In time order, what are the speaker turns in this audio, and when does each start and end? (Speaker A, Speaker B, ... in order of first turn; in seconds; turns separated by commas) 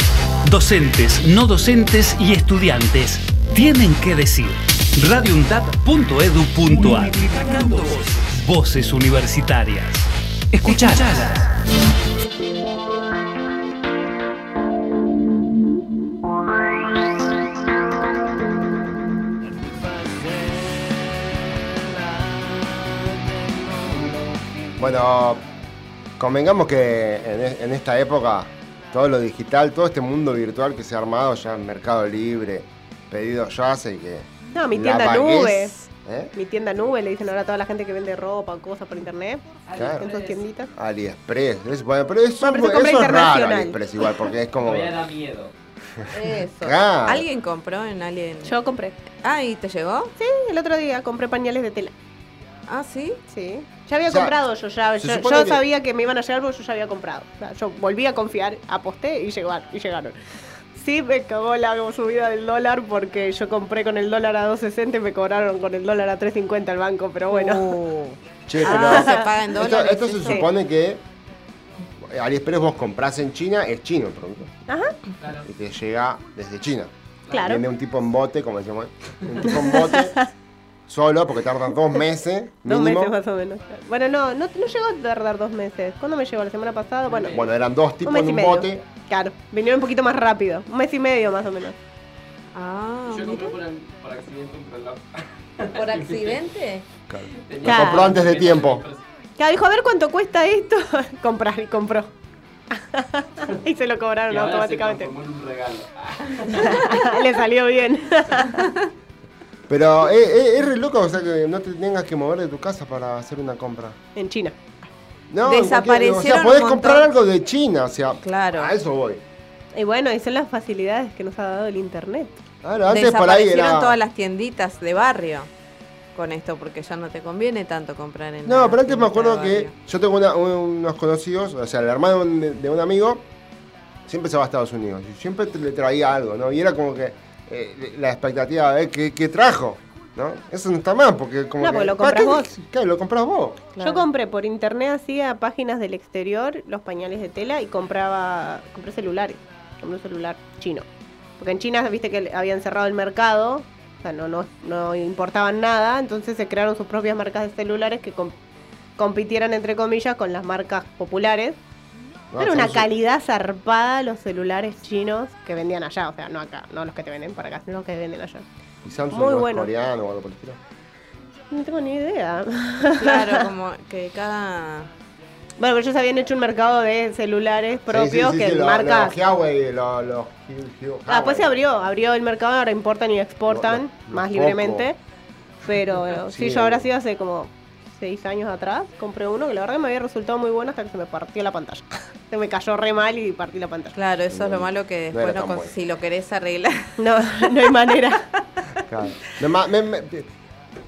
Speaker A: 0.4-11.5, Speaker B: 24.8-25.4, Speaker B: 26.2-36.3, Speaker C: 34.5-40.7, Speaker D: 39.7-40.4, Speaker B: 39.7-40.0, Speaker B: 40.7-45.0, Speaker C: 42.4-43.8, Speaker D: 44.6-45.5, Speaker E: 46.1-48.5, Speaker B: 46.6-47.2, Speaker C: 48.4-49.0, Speaker E: 49.2-50.1, Speaker C: 50.2-51.9, Speaker E: 52.7-53.2, Speaker C: 53.3-60.1, Speaker B: 54.1-54.4, Speaker B: 55.0-55.6, Speaker C: 60.7-67.7, Speaker E: 67.3-70.4, Speaker B: 68.5-71.0, Speaker C: 68.6-69.3, Speaker B: 72.0-74.5, Speaker C: 74.7-74.9, Speaker D: 75.2-75.5, Speaker B: 75.4-80.2, Speaker C: 77.3-77.6, Speaker C: 79.5-80.2, Speaker B: 80.9-83.1, Speaker C: 82.6-87.4, Speaker D: 87.1-87.4, Speaker B: 87.3-88.8, Speaker C: 88.0-91.8, Speaker E: 92.5-93.6, Speaker D: 93.1-96.4, Speaker E: 95.7-96.8, Speaker B: 97.1-98.8, Speaker D: 97.4-99.1, Speaker C: 97.6-98.2, Speaker C: 99.4-102.1, Speaker C: 102.7-105.1, Speaker D: 104.3-107.0, Speaker C: 106.4-108.7, Speaker B: 109.7-114.0, Speaker C: 114.2-114.7, Speaker B: 115.3-119.2, Speaker E: 115.4-117.1, Speaker E: 118.2-118.7, Speaker C: 119.7-122.3, Speaker B: 122.6-124.0, Speaker E: 122.9-125.5, Speaker E: 126.1-129.7, Speaker B: 128.4-133.2, Speaker B: 134.1-143.7, Speaker C: 141.6-142.5, Speaker E: 143.8-144.1, Speaker C: 143.8-150.8, Speaker C: 151.4-158.3, Speaker C: 159.0-161.6, Speaker B: 162.3-162.9, Speaker C: 162.4-168.4, Speaker B: 168.8-170.6, Speaker C: 169.1-169.7, Speaker C: 171.5-173.5, Speaker E: 173.0-174.9, Speaker C: 175.6-179.1, Speaker B: 177.9-181.6, Speaker C: 181.1-185.0, Speaker B: 183.5-184.9, Speaker C: 185.6-193.9, Speaker B: 186.1-186.9, Speaker E: 193.9-197.0, Speaker B: 194.3-195.7, Speaker C: 197.0-198.2, Speaker B: 198.8-200.3